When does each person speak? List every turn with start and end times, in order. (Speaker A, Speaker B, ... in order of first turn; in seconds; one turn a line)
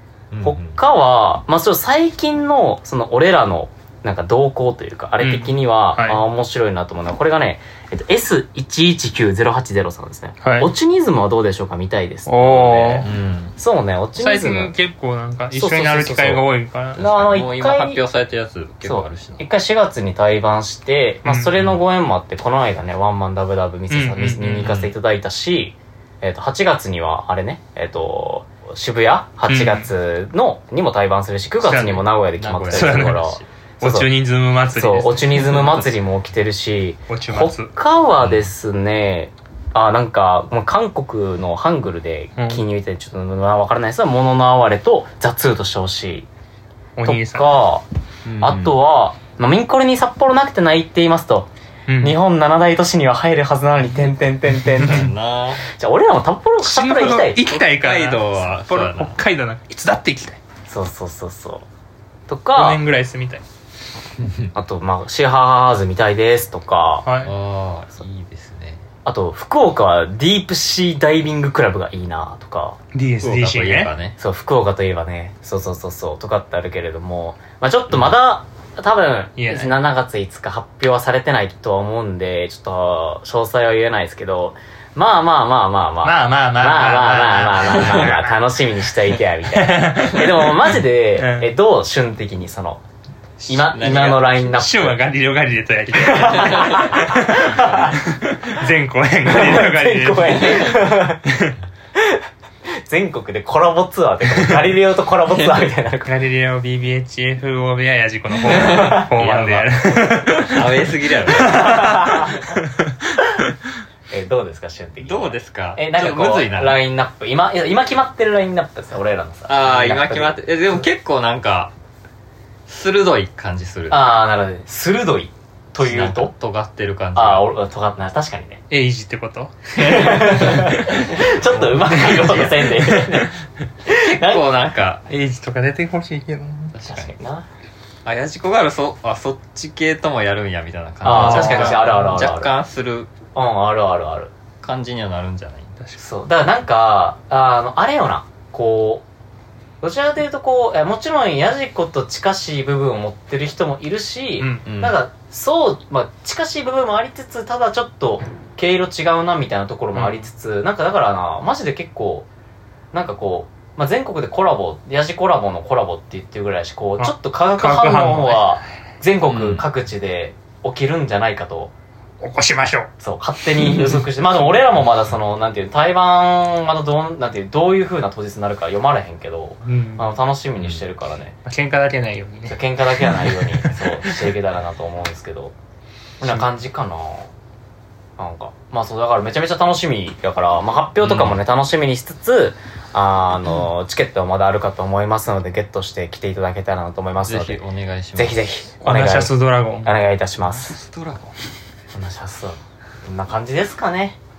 Speaker A: 0.3-0.8
Speaker B: 0.4-14.8
Speaker C: 5.2-6.2
Speaker C: 10.4-10.7
Speaker C: 12.3-13.1
Speaker A: 13.0-13.6
Speaker C: 14.2-17.0
Speaker B: 15.5-18.0
Speaker A: 17.0-19.4
Speaker B: 18.8-34.1
Speaker C: 21.2-21.6
Speaker C: 23.9-24.7
Speaker A: 24.6-24.9
Speaker C: 29.5-29.9
Speaker C: 31.6-32.1
Speaker A: 32.4-33.5
Speaker C: 32.7-33.2
Speaker C: 33.8-35.9
Speaker B: 34.7-46.3
Speaker C: 37.1-37.7
Speaker A: 38.2-38.5
Speaker C: 42.4-42.6
Speaker C: 47.0-47.5
Speaker B: 47.0-47.9
Speaker A: 48.2-48.8
Speaker B: 48.4-51.5
Speaker C: 51.9-52.2
Speaker B: 52.0-55.1
Speaker C: 54.8-55.1
Speaker A: 54.8-55.6
Speaker B: 55.7-57.5
Speaker C: 56.6-60.4
Speaker A: 57.5-59.2
Speaker B: 60.7-61.7
Speaker B: 62.3-62.8
Speaker C: 62.5-63.4
Speaker B: 64.5-67.1
Speaker C: 67.0-67.3
Speaker A: 67.2-68.8
Speaker B: 69.0-72.8
Speaker C: 72.9-73.9
Speaker A: 73.2-74.2
Speaker B: 74.2-92.8
Speaker A: 77.9-78.2
Speaker C: 79.4-79.7
Speaker C: 86.0-88.8
Speaker A: 87.8-88.1
Speaker C: 89.5-91.5
Speaker A: 93.4-94.4
Speaker B: 93.5-95.0
Speaker C: 94.4-101.6
Speaker B: 95.9-97.9
Speaker A: 96.4-96.8
Speaker B: 99.3-101.2
Speaker B: 102.8-106.1
Speaker C: 104.4-104.7
Speaker C: 105.3-110.6
Speaker A: 108.5-111.6
Speaker B: 108.7-109.0
Speaker C: 111.4-113.2
Speaker B: 111.4-112.4
Speaker B: 114.1-120.9
Speaker A: 115.0-116.8
Speaker A: 119.5-121.7
Speaker A: 122.7-124.1
Speaker B: 123.9-126.3
Speaker A: 125.8-127.5
Speaker B: 127.2-128.6
Speaker C: 128.7-131.0
Speaker B: 129.8-133.3
Speaker A: 129.8-130.8
Speaker A: 131.4-132.8
Speaker C: 131.8-133.3
Speaker B: 133.9-134.4
Speaker A: 133.9-135.1
Speaker C: 135.1-136.8
Speaker A: 136.7-137.2
Speaker B: 136.9-137.5
Speaker A: 138.1-143.1
Speaker B: 141.0-142.5
Speaker C: 141.1-142.2
Speaker B: 143.3-144.3
Speaker A: 144.6-145.8
Speaker B: 146.0-149.1
Speaker B: 149.8-162.3
Speaker C: 154.4-154.7
Speaker A: 154.7-155.0
Speaker C: 159.9-160.3
Speaker B: 162.9-171.7
Speaker C: 167.0-168.6
Speaker A: 169.2-169.7
Speaker C: 172.2-172.9
Speaker B: 173.0-181.4
Speaker C: 173.6-174.1
Speaker C: 179.6-180.1
Speaker A: 180.6-180.8
Speaker C: 181.4-184.3
Speaker B: 182.5-185.5
Speaker B: 186.2-187.3
Speaker B: 188.2-197.6
Speaker A: 191.0-191.4
Speaker A: 197.2-198.4
Speaker B: 198.2-200.8
Speaker C: 198.8-199.9
Speaker A: 200.5-201.3
Speaker B: 201.9-204.2